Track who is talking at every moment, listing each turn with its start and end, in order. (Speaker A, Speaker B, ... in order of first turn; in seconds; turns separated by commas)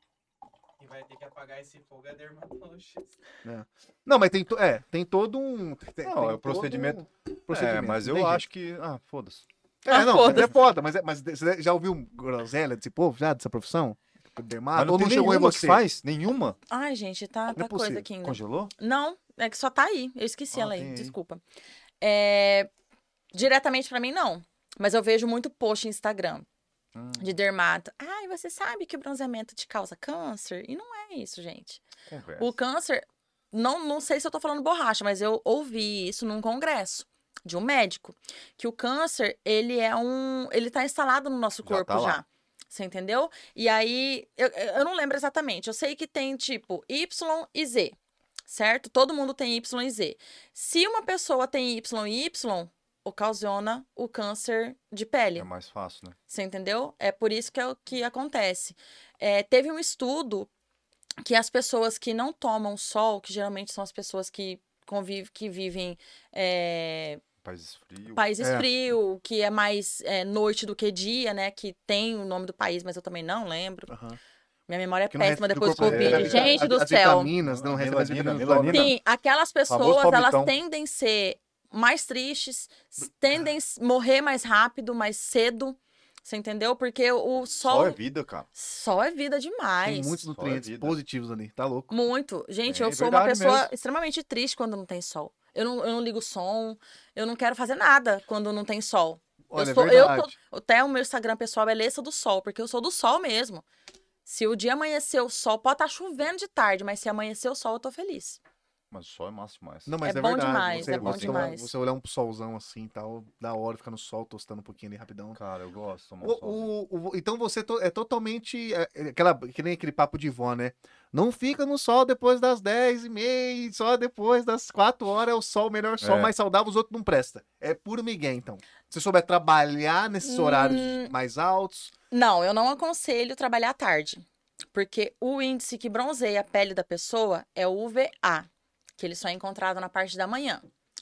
Speaker A: 0.8-3.2, Speaker B: 3.4-8.4, Speaker C: 6.0-9.4, Speaker B: 9.8-15.8, Speaker D: 9.9-10.5, Speaker C: 14.7-16.6, Speaker D: 16.7-21.4, Speaker B: 17.5-18.1, Speaker C: 18.2-18.7, Speaker C: 20.5-21.1, Speaker D: 22.0-22.7, Speaker D: 23.3-26.4, Speaker C: 26.9-27.4, Speaker D: 27.2-31.8, Speaker C: 32.1-32.5, Speaker D: 32.4-48.0, Speaker C: 41.6-42.2, Speaker D: 48.5-55.5, Speaker C: 55.3-56.1, Speaker D: 56.3-60.5, Speaker D: 61.2-67.2, Speaker C: 67.4-68.2, Speaker D: 68.1-73.9, Speaker B: 68.4-68.7, Speaker B: 73.9-74.2, Speaker D: 74.7-77.3, Speaker B: 75.1-78.9, Speaker C: 75.8-76.7, Speaker C: 77.4-79.0, Speaker D: 78.7-88.0, Speaker C: 79.7-80.5, Speaker C: 87.6-88.5, Speaker D: 88.5-90.2, Speaker B: 89.8-91.9, Speaker C: 90.3-91.0, Speaker D: 91.9-103.6, Speaker C: 92.7-93.7, Speaker B: 99.5-100.3, Speaker D: 104.2-108.4, Speaker C: 108.9-110.0, Speaker B: 109.8-115.4, Speaker D: 110.0-111.7, Speaker C: 110.7-111.5, Speaker C: 115.3-116.7, Speaker B: 116.2-131.9, Speaker C: 126.0-126.3, Speaker D: 130.2-131.1, Speaker D: 132.1-138.5, Speaker D: 139.0-140.6